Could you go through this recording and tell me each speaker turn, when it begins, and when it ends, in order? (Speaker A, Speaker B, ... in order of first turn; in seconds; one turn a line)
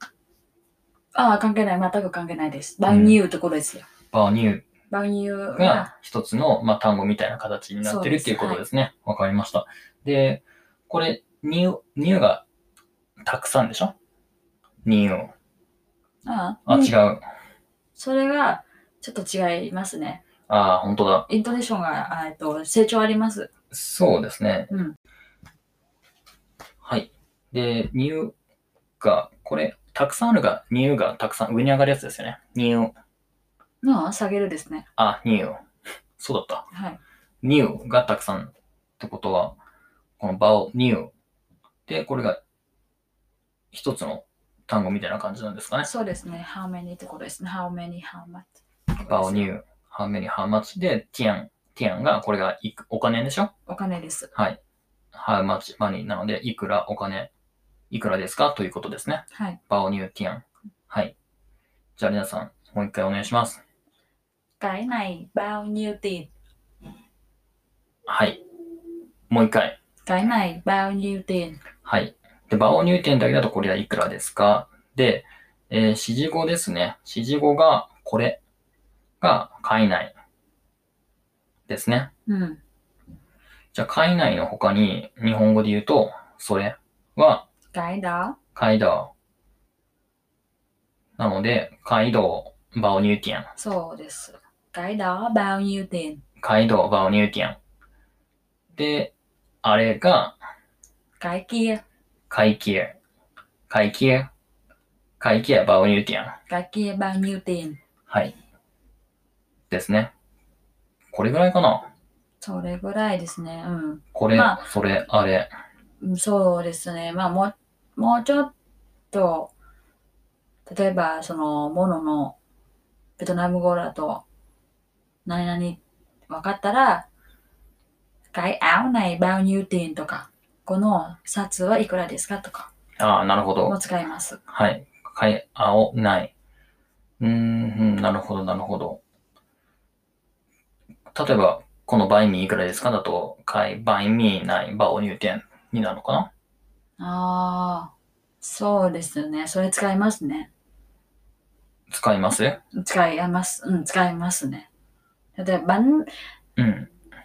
Speaker A: 1.1-3.9
Speaker B: 2.9-3.2
Speaker B: 4.1-4.7
Speaker A: 4.9-5.9
Speaker B: 5.5-12.4
Speaker A: 7.8-8.6
Speaker B: 13.2-13.9
Speaker B: 14.8-15.3
Speaker A: 16.2-16.9
Speaker B: 16.7-17.2
Speaker A: 18.0-20.2
Speaker B: 20.5-21.3
Speaker A: 21.3-23.5
Speaker B: 23.7-24.7
Speaker A: 24.7-24.9
Speaker B: 26.8-28.3
Speaker B: 29.0-32.9
Speaker A: 33.8-34.8
Speaker B: 35.0-35.6
Speaker B: 36.2-36.6
Speaker A: 36.7-37.0
Speaker B: 37.4-39.6
Speaker B: 40.2-41.1
Speaker B: 41.9-42.4
Speaker B: 43.7-45.9
Speaker A: 45.8-49.5
Speaker B: 49.0-53.5
Speaker A: 53.7-54.3
Speaker B: 55.1-57.3
Speaker B: 57.9-61.1
Speaker A: 59.3-59.6
Speaker B: 62.0-63.6
Speaker A: 64.6-66.3
Speaker B: 68.1-68.4
Speaker B: 69.3-69.8
Speaker A: 70.1-71.6
Speaker B: 71.8-78.4
Speaker B: 79.2-80.1
Speaker B: 81.7-82.1
Speaker A: 82.3-82.6
Speaker B: 83.7-87.5
Speaker A: 87.7-88.4
Speaker B: 88.5-89.1
Speaker B: 91.2-93.5
Speaker A: 93.6-96.2
Speaker B: 96.4-97.6
Speaker B: 98.7-100.4
Speaker A: 101.2-101.8
Speaker B: 102.3-103.0
Speaker B: 103.7-104.3
Speaker B: 105.2-106.4
Speaker A: 106.5-107.8
Speaker B: 108.1-108.3
Speaker B: 109.7-110.1
Speaker B: 111.1-111.9
Speaker A: 112.4-114.6
Speaker B: 114.2-115.5
Speaker A: 116.0-118.5
Speaker A: 119.1-119.5
Speaker A: 120.7-122.3
Speaker A: 123.2-124.2
Speaker A: 125.2-127.1
Speaker A: 128.3-132.7
Speaker B: 133.0-133.8
Speaker A: 133.7-134.4
Speaker B: 134.5-136.3
Speaker B: 137.2-139.0
Speaker B: 141.1-146.3
Speaker A: 147.0-147.9
Speaker A: 148.4-150.5
Speaker B: 151.9-152.6
Speaker A: 152.7-154.7
Speaker A: 155.4-156.1
Speaker B: 156.6-156.9